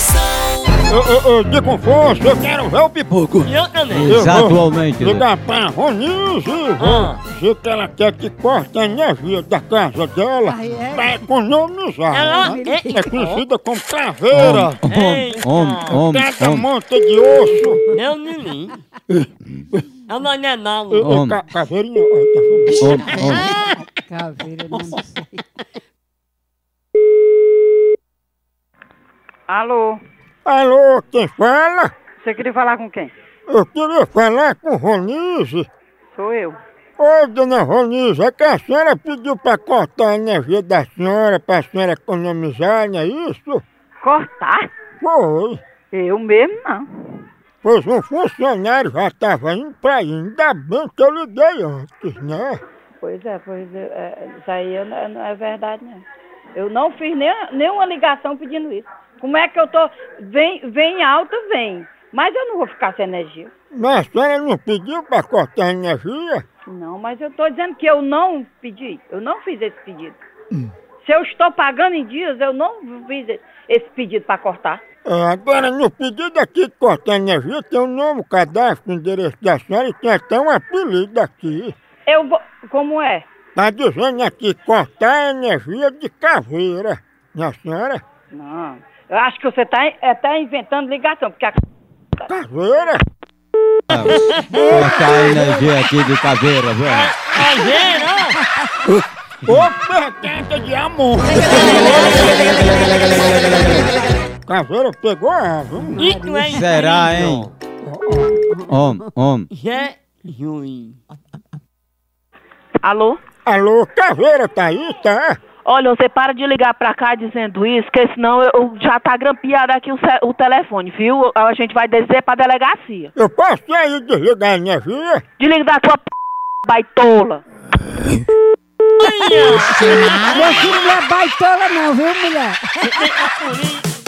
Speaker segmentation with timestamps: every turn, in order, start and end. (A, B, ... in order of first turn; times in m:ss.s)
0:00.9-0:03.5 A
0:03.4-0:04.2 B
0:03.9-0:05.3 C
0:04.0-0:14.8 A
0:06.8-0:07.2 B
0:10.4-0:11.2 D
0:12.1-0:13.4 B
0:12.4-0:13.1 D
0:14.3-0:16.6 C
0:14.8-0:16.0 B
0:15.9-0:17.8 A
0:17.9-0:18.8 B
0:20.1-0:21.2 B
0:20.9-0:23.0 A
0:21.1-0:21.4 C
0:22.7-0:25.4 D
0:22.8-0:23.5 C
0:29.5-0:30.0 E
0:30.4-0:31.9 A
0:32.2-0:33.1 E
0:33.5-0:35.7 A
0:36.1-0:36.6 E
0:37.0-0:43.6 A
0:44.0-0:44.7 E
0:45.0-0:45.6 A
0:45.9-0:46.9 E
0:47.6-0:52.6 A
0:53.0-0:56.0 E
0:56.5-1:03.5 E
1:03.7-1:06.4 A
1:06.6-1:10.2 E
1:11.0-1:14.8 E
1:15.0-1:21.7 A
1:22.1-1:23.2 E
1:23.6-1:28.0 A
1:28.3-1:31.6 E
1:32.2-1:33.0 A
1:33.9-1:37.1 C
1:34.0-1:34.7 B
1:34.5-1:35.8 D
1:36.8-1:38.4 B
1:38.9-1:42.5 A
1:41.2-1:42.4 B
1:44.4-1:46.0 A
1:46.0-1:47.5 B
1:46.0-1:46.9 D
1:46.6-1:47.4 C
1:47.8-1:48.6 A
1:48.7-1:49.5 C
1:49.5-1:51.0 B
1:52.8-1:53.2 F
1:53.4-1:55.4 A
1:55.6-2:03.1 F
2:03.2-2:05.2 A
2:05.4-2:06.1 F
2:06.6-2:07.4 F
2:09.0-2:11.0 B
2:10.1-2:12.9 D
2:12.8-2:13.8 B